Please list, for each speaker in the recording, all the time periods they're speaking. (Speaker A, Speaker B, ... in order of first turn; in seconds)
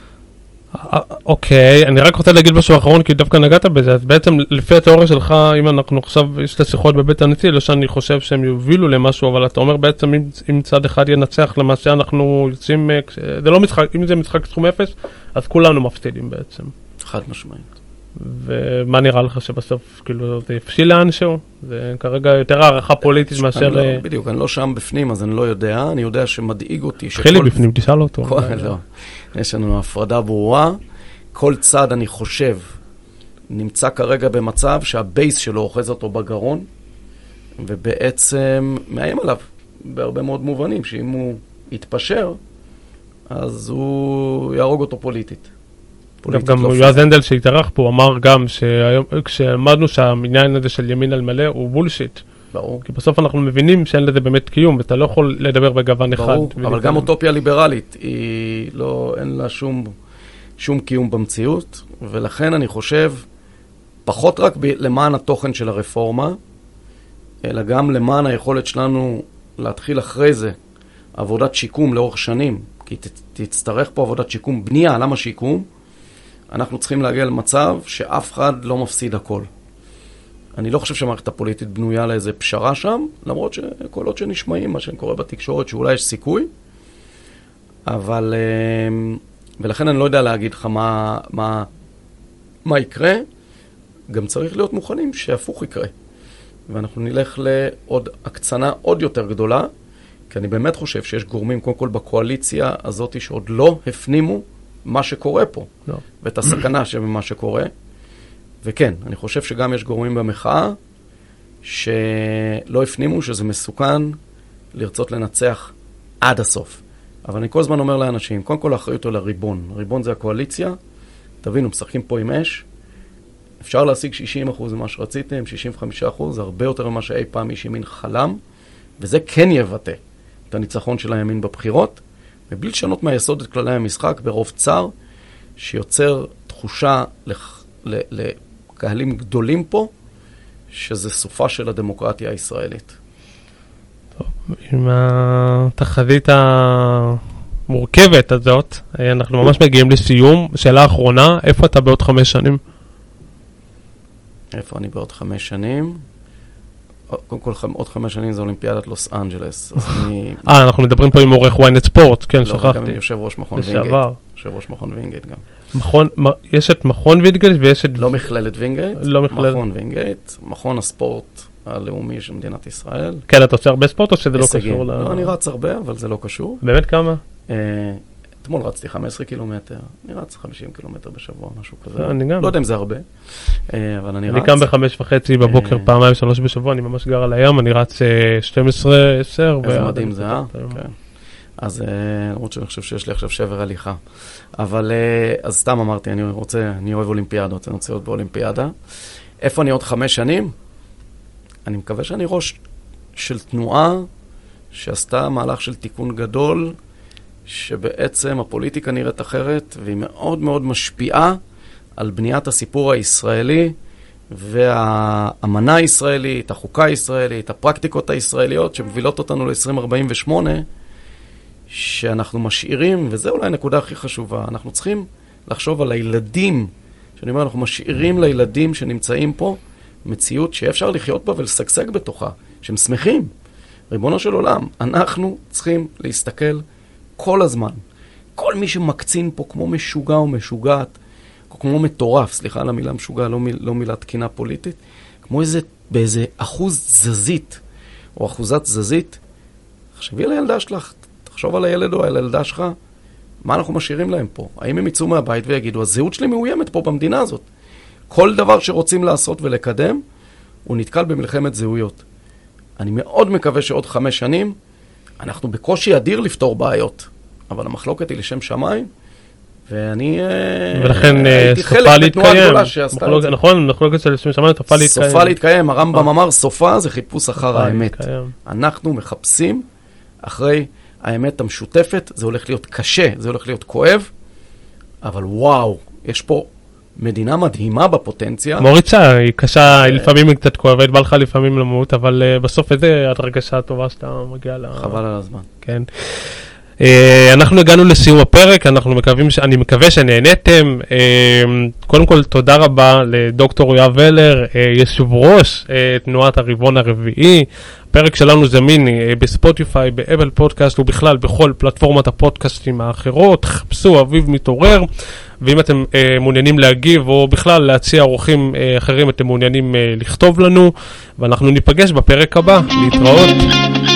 Speaker A: 0.8-16.7, 18.2-24.0, 27.1-28.7, 46.3-52.2, 52.9-57.1, 144.2-152.6, 160.4-163.0, 163.6-164.2, 165.7-168.1, 169.0-169.6, 173.3-175.4, 176.6-177.2, 182.0-182.5, 184.3-190.8, 270.7-275.4, 277.4-278.3, 288.6-295.0, 295.6-314.9, 315.4-323.5
Speaker B: 17.0-17.7, 23.1-27.6, 28.2-30.8, 31.3-32.8, 33.5-36.7, 37.6-42.4, 43.3-45.5, 46.2-47.0, 52.5-52.8, 56.1-59.9, 60.6-63.2, 64.1-66.4, 67.4-70.5, 71.2-75.7, 76.5-79.5, 80.6-86.5, 87.9-91.7, 92.6-93.3, 94.1-95.9, 96.7-99.7, 100.3-105.7, 106.2-107.7, 108.6-110.8, 111.6-114.2, 114.7-120.8, 121.4-122.6, 123.6-128.4, 129.0-130.0, 130.5-134.9, 135.6-139.9, 140.7-143.0, 154.5-156.0, 157.1-160.4, 162.4-165.4, 168.0-173.2, 174.4-176.6, 177.5-184.6, 185.4-185.9, 189.6-190.9, 191.6-194.0, 194.6-198.7, 199.4-200.5, 201.7-202.6, 203.2-204.1, 204.7-206.8, 207.4-211.4, 212.0-213.8, 214.3-220.7, 221.7-233.3, 233.9-236.6, 237.2-237.8, 238.4-240.9, 241.5-247.6, 248.2-249.2, 249.9-252.8, 253.4-257.4, 258.1-260.0, 260.7-262.0, 262.8-264.6, 265.2-268.9, 269.7-273.4, 274.7-279.7, 280.2-284.1, 285.0-288.7, 289.7-290.1, 294.7-295.5